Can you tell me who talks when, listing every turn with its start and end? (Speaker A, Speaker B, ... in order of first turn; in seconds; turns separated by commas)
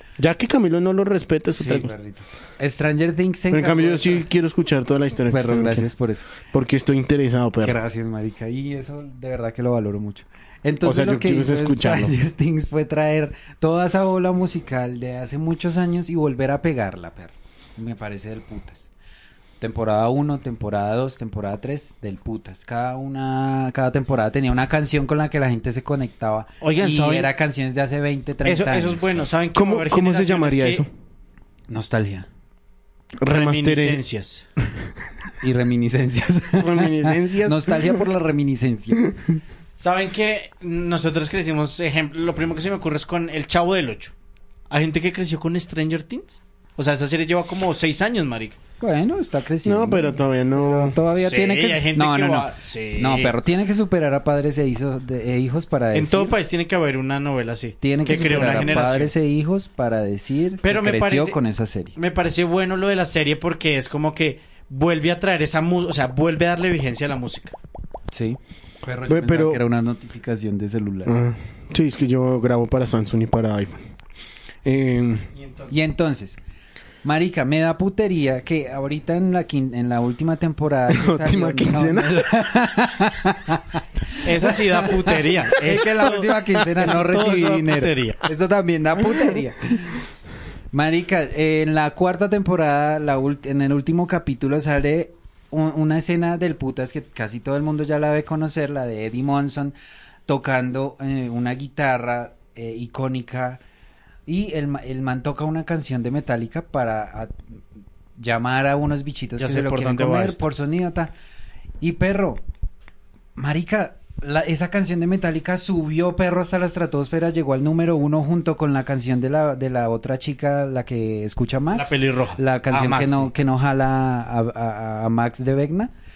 Speaker A: 0.2-1.9, Speaker B: 1.5-4.2, Speaker A: 3.5-7.8, Speaker B: 5.3-6.3, Speaker B: 7.6-18.9, Speaker A: 10.8-12.2, Speaker B: 19.6-29.1, Speaker C: 26.6-27.3, Speaker C: 28.4-30.8, Speaker A: 29.5-30.9, Speaker B: 31.7-32.3, Speaker A: 33.2-34.0, Speaker C: 33.3-34.4, Speaker B: 35.4-39.1, Speaker A: 36.5-38.0, Speaker C: 39.8-44.1, Speaker C: 44.7-48.6, Speaker B: 48.8-56.3, Speaker A: 49.6-51.0, Speaker C: 51.2-53.3, Speaker C: 55.9-59.1, Speaker B: 57.8-61.9, Speaker C: 60.6-61.4, Speaker C: 62.0-67.5, Speaker B: 68.1-71.1, Speaker A: 69.1-69.6, Speaker A: 71.0-73.8, Speaker A: 74.6-75.3, Speaker C: 75.3-75.7, Speaker B: 75.7-76.4, Speaker B: 77.0-90.0, Speaker A: 80.9-82.3, Speaker C: 84.2-88.2, Speaker B: 90.7-99.7, Speaker B: 100.2-103.6, Speaker B: 104.2-107.3, Speaker B: 108.2-111.1, Speaker C: 109.4-110.4, Speaker B: 111.8-112.4, Speaker B: 113.3-125.9, Speaker C: 121.7-123.3